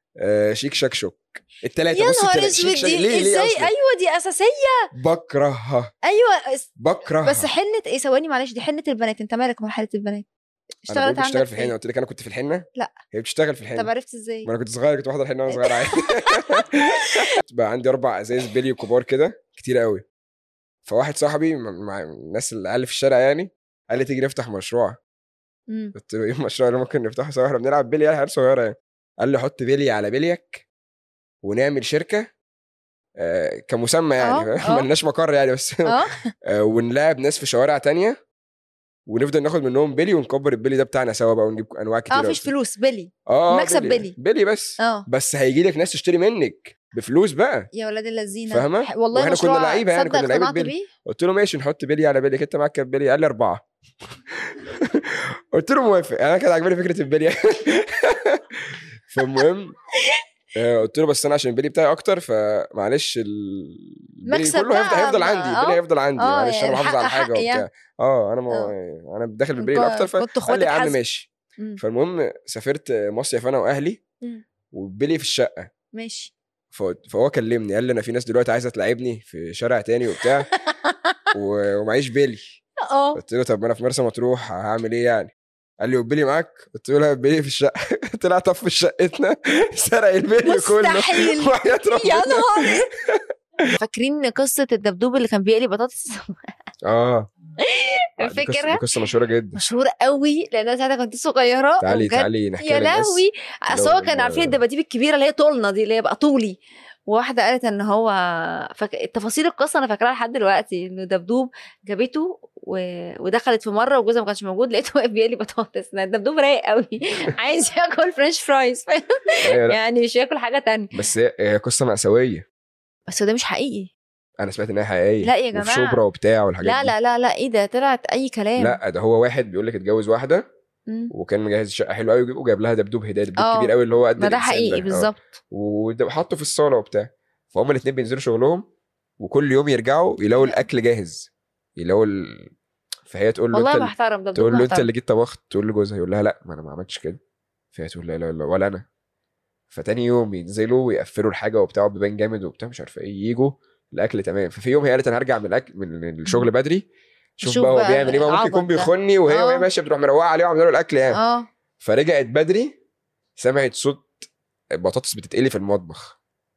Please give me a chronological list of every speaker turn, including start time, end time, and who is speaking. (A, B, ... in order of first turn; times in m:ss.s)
0:00.2-0:03.7 A
0:01.9-0:04.9 B
0:04.9-0:05.9 A
0:06.0-0:06.7 B
0:06.8-0:07.5 A
0:07.2-0:10.3 B
0:10.9-0:11.7 B
0:10.9-0:13.9 A
0:13.8-0:14.5 B
0:14.4-0:20.0 A
0:15.5-0:17.2 B
0:20.9-0:25.0 A
0:25.7-0:26.0 B
0:26.0-0:30.6 A
0:31.4-0:32.3 A
0:33.2-0:38.2 A
0:34.2-0:34.9 B
0:35.8-0:36.3 B
0:39.1-0:42.5 A
0:42.1-0:44.1 B
0:43.3-0:47.7 A
0:44.8-0:45.1 B
0:47.7-0:50.9 B
0:48.5-0:53.6 A
0:54.3-0:59.8 A
1:00.6-1:14.0 A
1:04.3-1:07.6 B
1:09.6-1:11.0 B
1:14.7-1:15.7 A
1:15.9-1:16.3 B
1:16.7-1:20.5 A
1:20.5-1:21.2 B
1:21.3-1:22.4 A
1:22.8-1:23.2 B
1:23.2-1:33.7 A
1:30.4-1:32.9 B
1:33.7-1:36.4 B
1:36.8-1:37.3 A
1:37.6-1:38.8 B
1:38.2-1:39.6 A
1:39.6-2:00.9 B
1:41.8-1:44.6 A
1:59.4-1:59.8 A
2:00.9-2:02.4 A
2:03.1-2:03.9 B
2:04.4-2:06.9 A
2:05.2-2:06.0 B
2:06.6-2:08.8 B
2:08.6-2:10.5 A
2:11.1-2:18.6 A
2:13.4-2:15.2 B
2:19.2-2:22.5 A
2:23.1-2:27.2 A
2:23.5-2:24.9 B
2:27.7-2:28.8 A
2:29.7-2:36.9 A
2:37.4-2:41.2 A
2:37.4-2:39.7 B
2:41.1-2:41.5 B
2:41.8-2:42.8 A
2:43.4-2:44.1 A
2:44.8-2:46.2 A